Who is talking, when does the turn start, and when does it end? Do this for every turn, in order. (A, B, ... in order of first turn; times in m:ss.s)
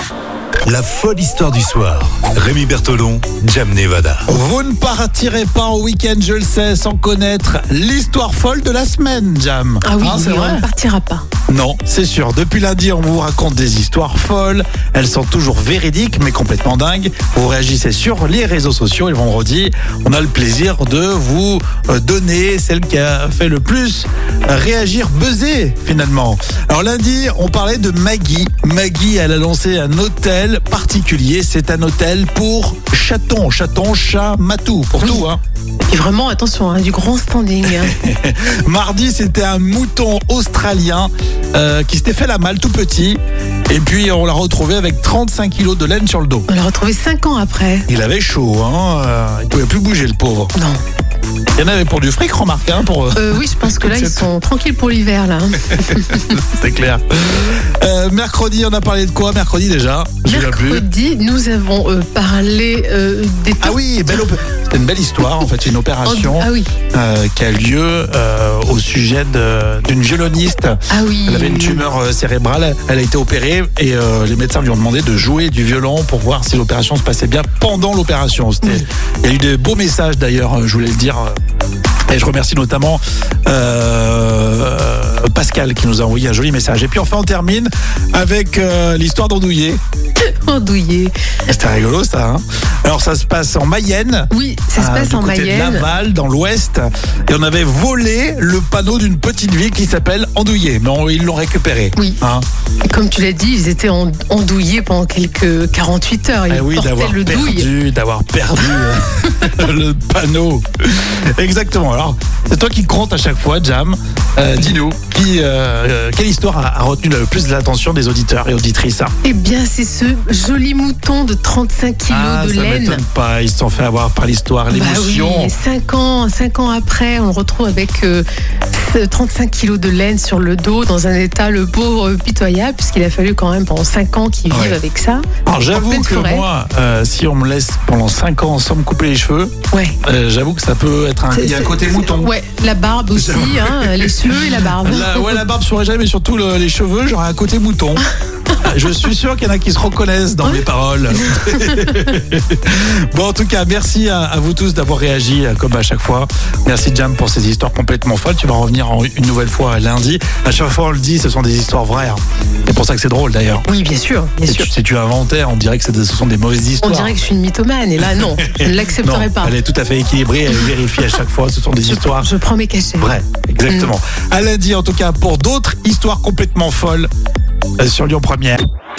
0:00.6-0:04.3 A
0:04.3-0:10.6 B
0:09.8-0:11.2 C
0:11.5-0:35.4 B
0:35.9-0:38.0 C
0:37.6-0:46.5 B
0:46.5-0:47.9 C
0:47.9-0:50.5 B
0:50.6-0:50.8 C
0:51.6-0:54.3 B
0:53.2-0:56.4 C
0:55.6-1:00.9 B
1:00.2-1:04.3 C
1:03.6-1:21.4 B
1:06.0-1:06.7 C
1:10.9-1:11.8 C
1:22.1-1:29.8 B
1:30.2-1:31.2 C
1:31.5-1:42.5 B
1:34.3-1:35.9 C
1:42.9-1:47.7 C
1:46.5-1:59.1 B
1:59.2-2:03.0 C
2:02.1-2:05.6 B
2:04.7-2:16.4 C
2:14.5-2:14.8 B
2:15.4-2:22.3 B
2:19.7-2:20.0 C
2:21.3-2:25.4 C
2:23.2-2:28.1 B
2:28.6-2:43.7 B
2:30.4-2:32.0 C
2:43.7-2:44.7 C
2:44.4-2:47.2 B
2:46.8-2:49.6 C
2:48.0-2:52.3 B
2:51.9-2:53.2 C
2:53.0-2:57.1 B
2:57.8-2:58.6 B